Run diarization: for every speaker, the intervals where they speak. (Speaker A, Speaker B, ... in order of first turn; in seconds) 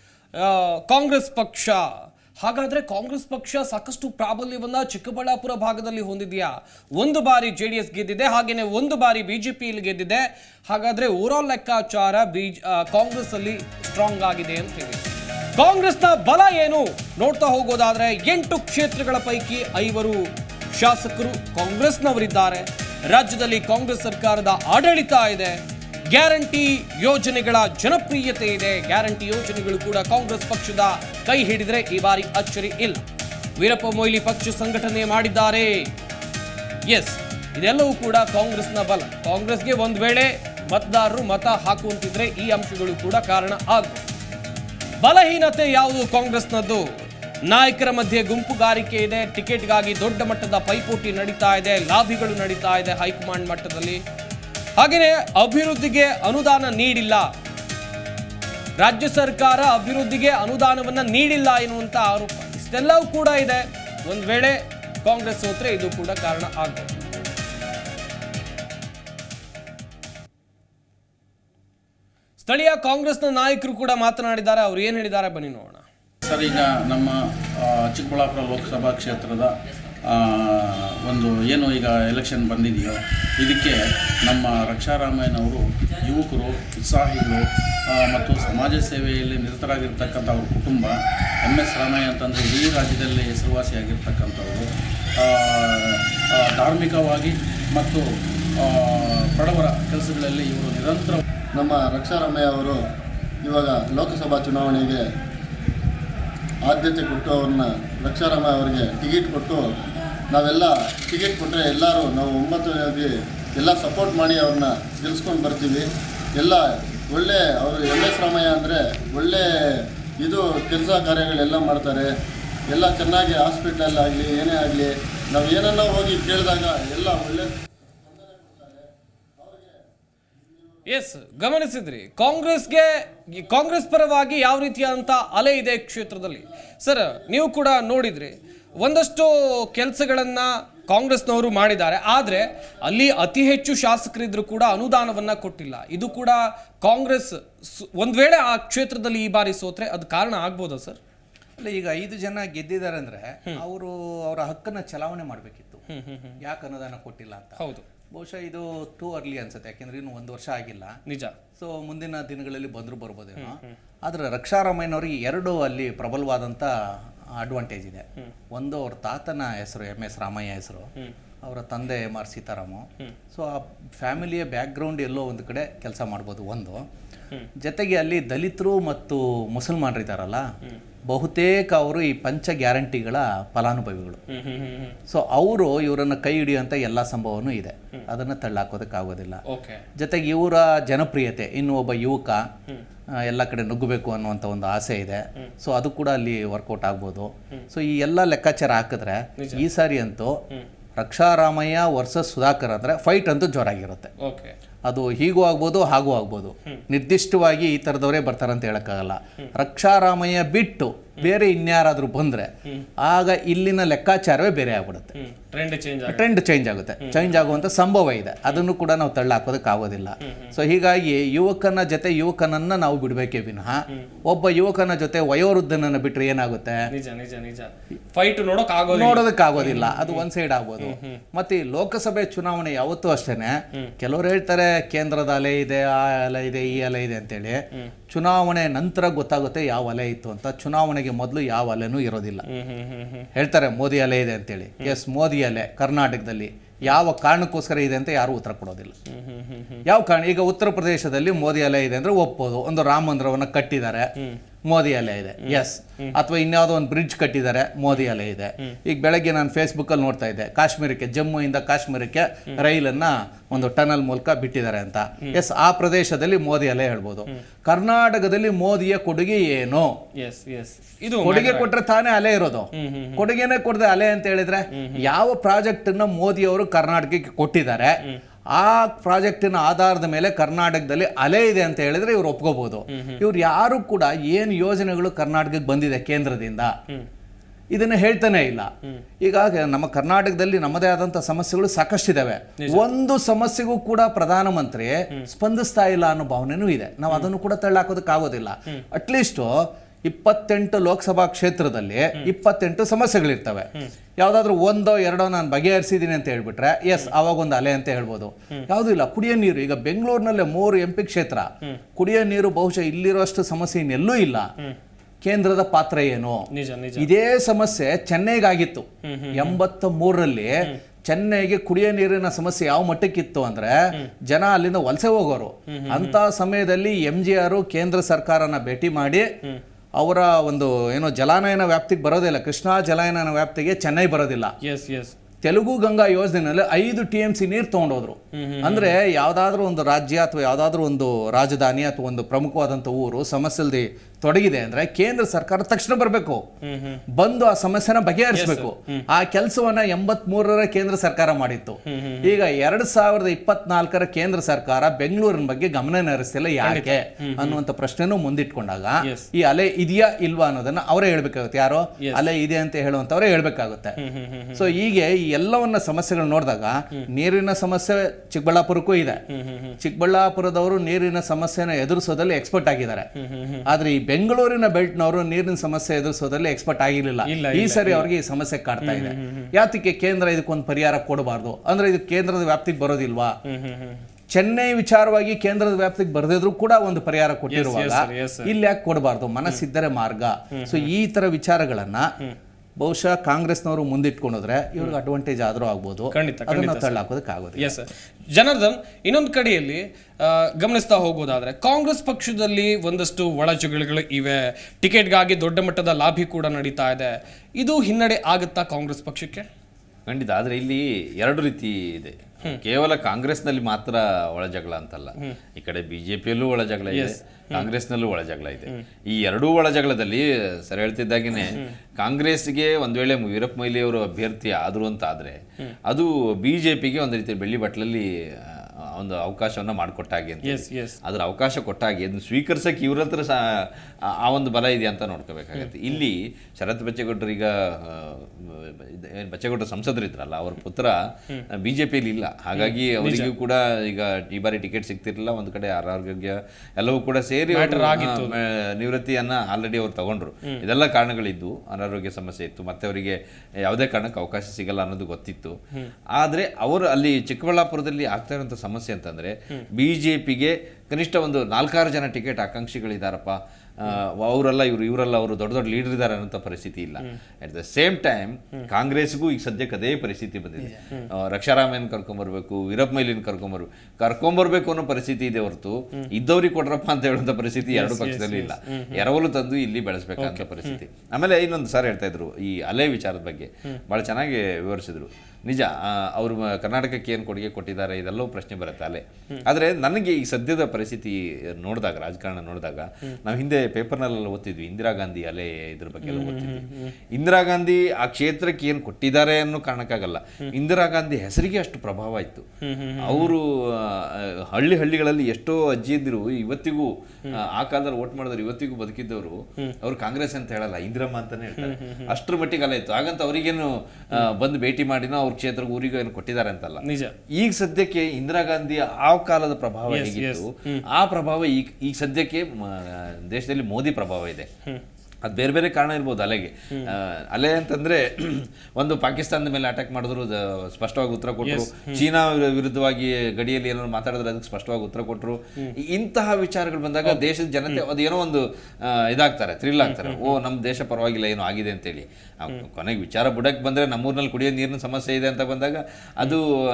Speaker A: 0.3-15.0, 15.6-33.0, 33.6-35.9, 36.9-44.0, 45.0-54.0, 54.8-57.3, 58.8-66.9, 72.4-75.8, 130.8-151.0, 155.9-156.4, 157.6-157.8, 161.1-161.3, 184.3-185.0, 189.4-189.8, 204.2-204.5, 215.2-216.2, 226.9-230.2, 230.8-231.2, 242.5-243.3, 249.1-249.8, 255.4-256.1, 270.1-271.7, 272.7-273.2, 274.7-275.0, 282.9-283.2, 316.5-317.1, 319.0-319.6, 325.7-326.2, 334.6-335.1, 338.3-338.9, 346.6-347.0, 348.3-349.0, 351.9-352.3, 356.6-357.6, 362.0-362.2, 364.0-364.7, 369.3-369.8, 373.2-373.6, 377.3-378.1, 378.8-379.5, 383.4-384.0, 387.5-388.5, 390.6-390.9, 396.1-397.0, 397.6-409.5, 416.9-417.7, 430.4-431.0, 442.6-443.3, 447.5-448.4, 477.7-479.1, 480.2-480.8, 496.0-496.9, 502.6-503.3, 511.6-512.1, 516.8-517.1, 519.9-520.8, 531.4-532.0, 537.0-537.8, 539.8-540.4
Speaker B: 76.2-101.2
Speaker C: 101.5-102.8, 103.4-105.0, 106.7-109.7, 110.3-119.5, 120.2-122.1, 122.7-127.5, 128.0-129.8
Speaker D: 151.6-155.8, 156.4-157.6, 158.1-161.0, 161.6-166.7, 167.4-170.9, 171.4-176.8, 177.6-180.5, 181.1-184.2, 185.1-189.4, 190.0-192.4, 193.2-200.4, 201.0-204.1, 204.8-212.5, 213.0-215.1, 216.1-226.8, 228.9-242.4, 243.3-248.9, 249.8-254.1, 254.7-269.9, 271.2-277.9, 278.5-286.7, 287.7-288.7, 289.2-314.5, 315.2-316.4, 317.0-320.5, 321.1-323.7, 324.3-329.3, 330.0-334.5, 335.4-346.4, 347.1-363.9, 364.5-369.2, 369.8-373.1, 373.7-383.4, 384.3-392.1, 392.8-397.8
Speaker E: 410.1-433.7, 434.2-441.0, 441.6-455.6, 456.1-502.4, 503.0-516.8, 517.4-524.5, 525.2-546.5